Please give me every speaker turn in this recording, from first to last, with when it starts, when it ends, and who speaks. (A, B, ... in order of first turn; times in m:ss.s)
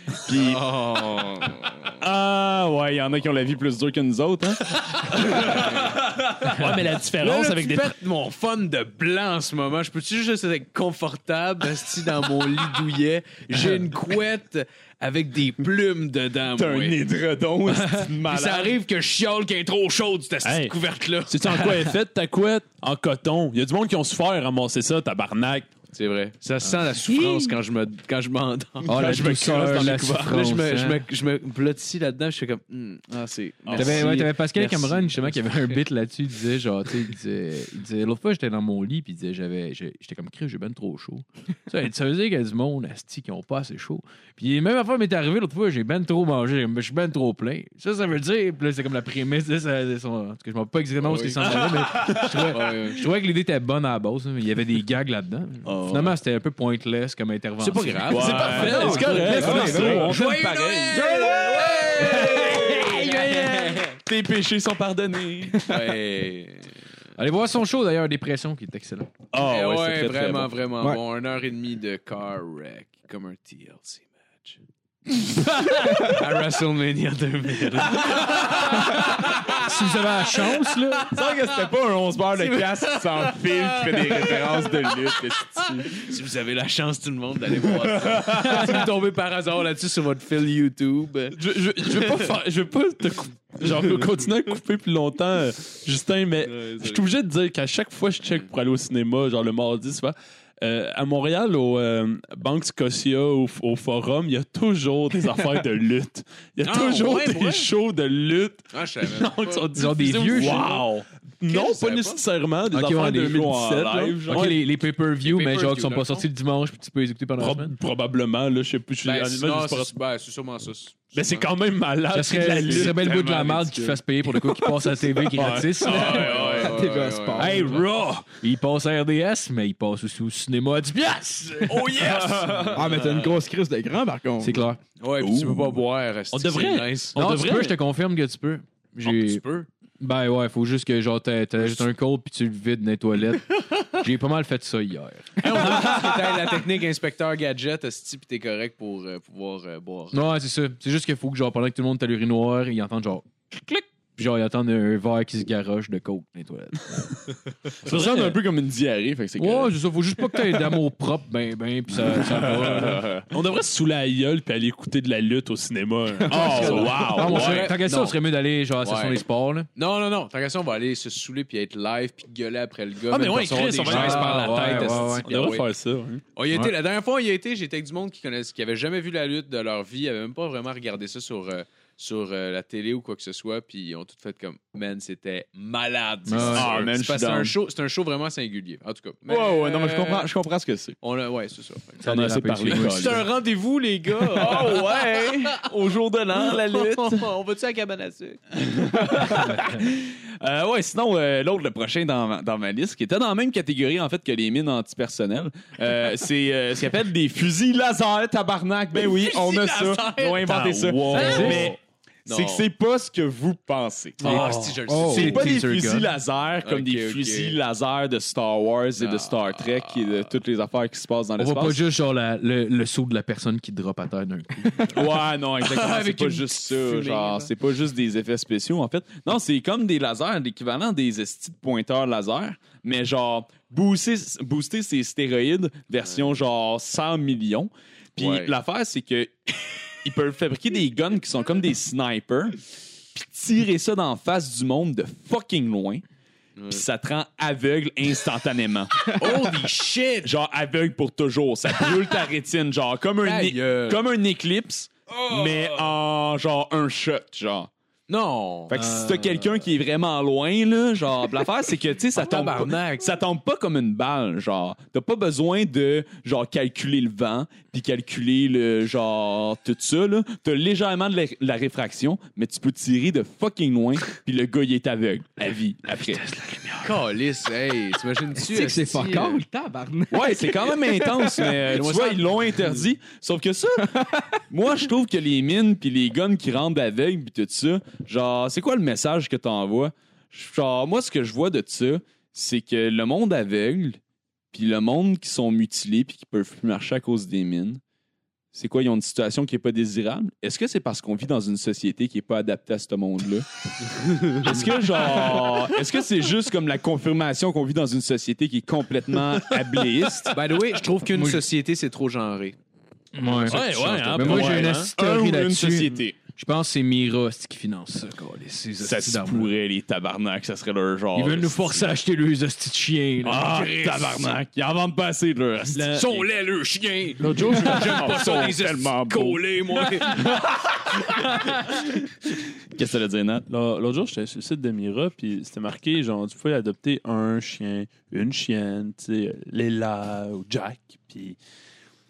0:00.2-0:00.6 A
0:00.3-0:02.0 B
0:01.9-0:05.6 A
0:04.7-0:07.9 C
0:05.2-0:06.6 B
0:07.2-0:17.0 B
0:13.5-0:13.9 C
0:16.6-0:18.8 A
0:17.7-0:21.8 B
0:20.4-0:20.7 C
0:21.3-0:25.7 C
0:25.9-0:29.1 B
0:27.1-0:27.5 A
0:28.8-0:31.0 D
0:28.9-0:30.5 A
0:30.2-0:35.8 B
0:33.6-0:34.2 A
0:33.8-0:59.8 D
0:51.0-0:53.0 B
0:51.7-0:52.5 A
0:55.6-0:56.1 B
0:57.6-1:03.8 B
0:58.1-1:05.7 A
0:58.2-1:00.2 C
0:59.0-1:00.1 E
1:00.9-1:02.9 E
1:02.2-1:03.5 D
1:05.6-1:06.8 B
1:07.2-1:09.1 D
1:09.3-1:10.5 A
1:09.4-1:14.6 B
1:15.6-1:16.2 D
1:15.6-1:19.7 B
1:18.8-1:21.1 D
1:21.0-1:26.1 A
1:22.4-1:24.9 B
1:25.6-1:32.3 B
1:31.3-1:54.6 C
1:36.4-1:37.0 B
1:46.6-1:47.7 B
1:48.7-1:50.7 B
1:49.7-1:50.7 D
1:51.5-1:52.2 B
1:52.7-1:54.6 A
1:54.3-1:57.7 D
1:55.2-1:56.3 B
1:57.4-1:59.9 C
1:59.0-2:01.5 B
2:01.1-2:03.8 C
2:02.1-2:06.6 D
2:02.7-2:03.2 A
2:02.7-2:03.4 B
2:04.4-2:06.3 C
2:05.8-2:07.8 B
2:06.1-2:07.8 E
2:07.4-2:08.2 C
2:08.3-2:12.0 D
2:11.7-2:13.3 B
2:11.9-2:12.3 C
2:12.0-2:12.9 A
2:12.7-2:14.6 E
2:14.4-2:14.8 D
2:15.0-2:17.2 B
2:15.2-2:15.6 A
2:16.3-2:17.8 C
2:17.2-2:19.4 D
2:19.4-2:19.6 B
2:20.0-2:26.0 D
2:25.4-2:30.2 B
2:30.1-2:37.3 D
2:37.8-2:39.7 A
2:37.9-2:38.4 C
2:39.4-2:43.1 D
2:41.9-2:43.3 A
2:43.3-2:47.3 C
2:46.3-2:47.7 A
2:46.3-2:49.7 D
2:46.6-2:48.2 B
2:48.8-2:49.2 B
2:49.8-2:55.7 B
2:53.1-2:56.2 C
2:53.8-2:55.6 D
2:56.3-3:10.3 B
3:06.3-3:06.7 D
3:06.5-3:07.5 A
3:09.3-3:11.0 A
3:11.0-3:12.0 B
3:12.0-3:13.2 D
3:12.0-3:13.2 A
3:12.6-3:15.7 B
3:14.3-3:17.3 A
3:16.3-3:18.4 B
3:18.5-3:31.8 A
3:29.0-3:31.7 B
3:30.5-3:31.8 C
3:31.1-3:31.7 D
3:32.2-3:32.7 B
3:32.3-3:34.5 A
3:34.2-3:34.8 C
3:34.2-3:35.6 B
3:34.2-3:36.1 D
3:35.1-3:41.8 A
3:36.6-3:37.6 B
3:39.0-3:40.3 B
3:41.4-3:45.0 D
3:44.9-4:02.6 A
3:45.6-3:47.5 B
3:58.2-3:58.5 B
4:03.1-4:06.0 A
4:06.6-4:06.8 B
4:06.7-4:09.3 A
4:09.1-4:10.3 B
4:10.2-4:17.7 A
4:13.2-4:14.0 B
4:15.1-4:15.7 B
4:18.1-4:18.8 B
4:18.7-4:36.2 A
4:18.7-4:19.4 D
4:22.1-4:23.1 B
4:36.1-4:37.0 D
4:36.8-4:39.4 B
4:38.4-4:41.5 E
4:40.1-4:44.0 A
4:41.6-4:42.8 B
4:43.8-4:44.2 E
4:44.5-4:54.0 A
4:54.5-4:57.8 A
4:58.5-5:03.4 A
5:04.4-5:10.3 A
5:09.5-5:09.8 C
5:10.3-5:12.6 B
5:11.1-5:11.4 D
5:13.1-5:19.5 D
5:13.4-5:14.7 B
5:13.4-5:14.9 C
5:14.2-5:16.2 A
5:18.8-5:21.9 A
5:21.1-5:23.7 D
5:23.2-5:24.3 C
5:23.4-5:26.0 A
5:25.7-5:26.2 C
5:26.0-5:30.2 B
5:27.2-5:28.2 C
5:27.7-5:29.4 A
5:30.1-5:31.0 A
5:32.7-5:33.4 A
5:33.5-5:41.4 C